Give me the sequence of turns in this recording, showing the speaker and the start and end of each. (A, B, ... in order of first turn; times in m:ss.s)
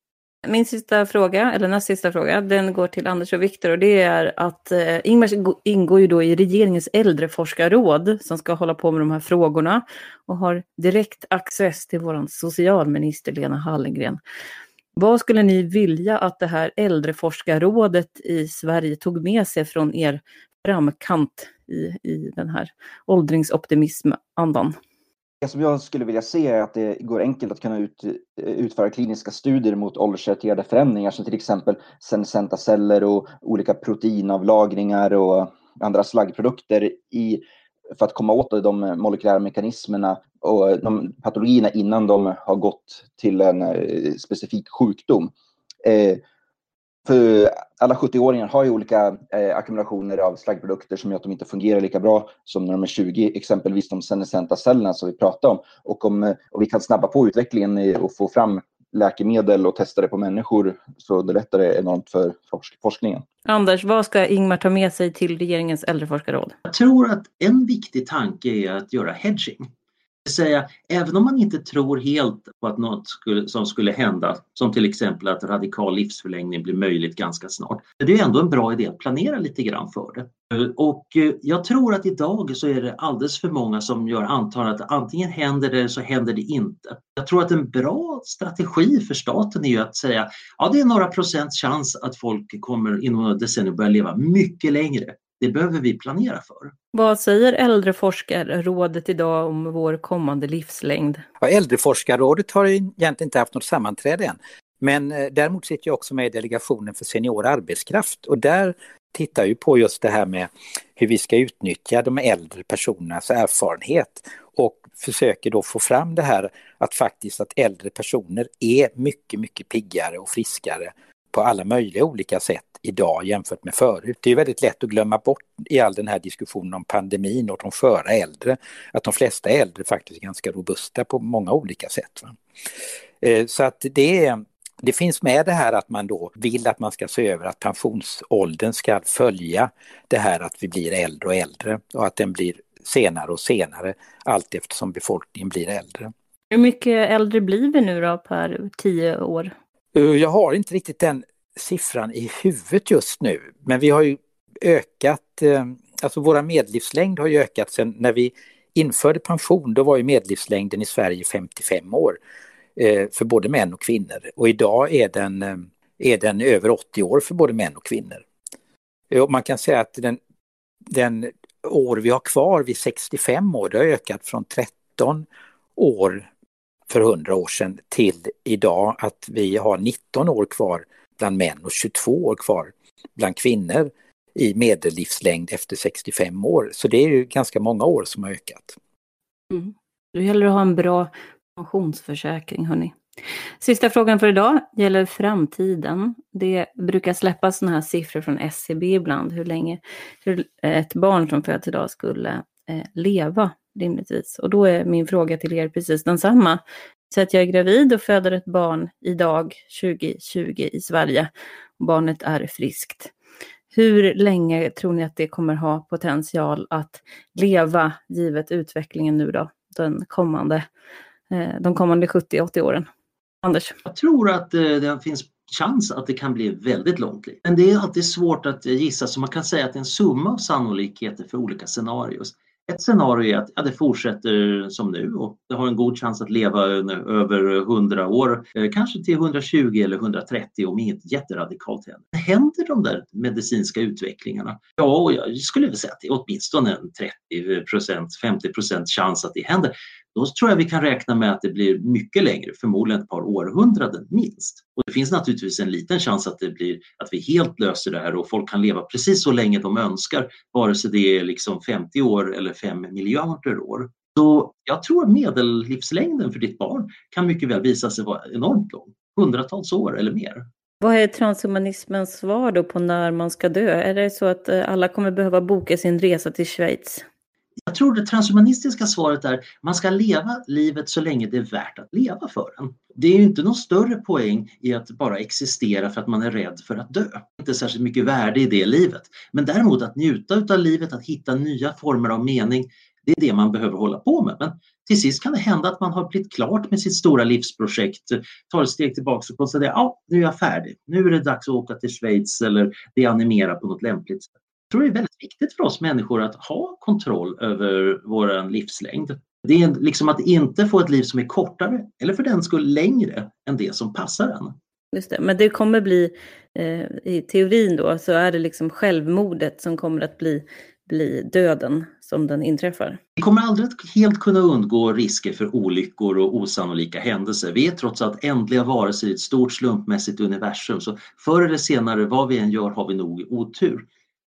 0:00.4-0:14.2 A
0:15.0-0:24.8 A
0:25.4-0:37.4 B
0:37.9-0:45.3 B
0:45.8-0:46.2 B
0:47.0-1:03.2 B
1:03.4-1:06.5 A
1:06.6-1:09.7 C
1:10.2-1:36.7 C
1:36.9-1:41.2 A
1:41.4-2:12.4 D
2:13.2-2:26.1 D
2:26.5-2:29.5 A
2:29.9-2:42.2 D
2:42.8-2:48.2 D
2:49.1-2:50.2 D
2:50.9-2:56.3 D
2:56.9-3:08.8 D
3:09.5-3:13.0 A
3:13.6-3:33.1 A
3:33.7-3:40.6 A
3:41.3-3:42.9 A
3:43.4-3:43.7 A
3:43.8-4:30.5 C
4:30.8-4:37.0 A
4:37.6-5:14.5 C
5:14.9-5:23.0 A
5:23.2-5:33.8 C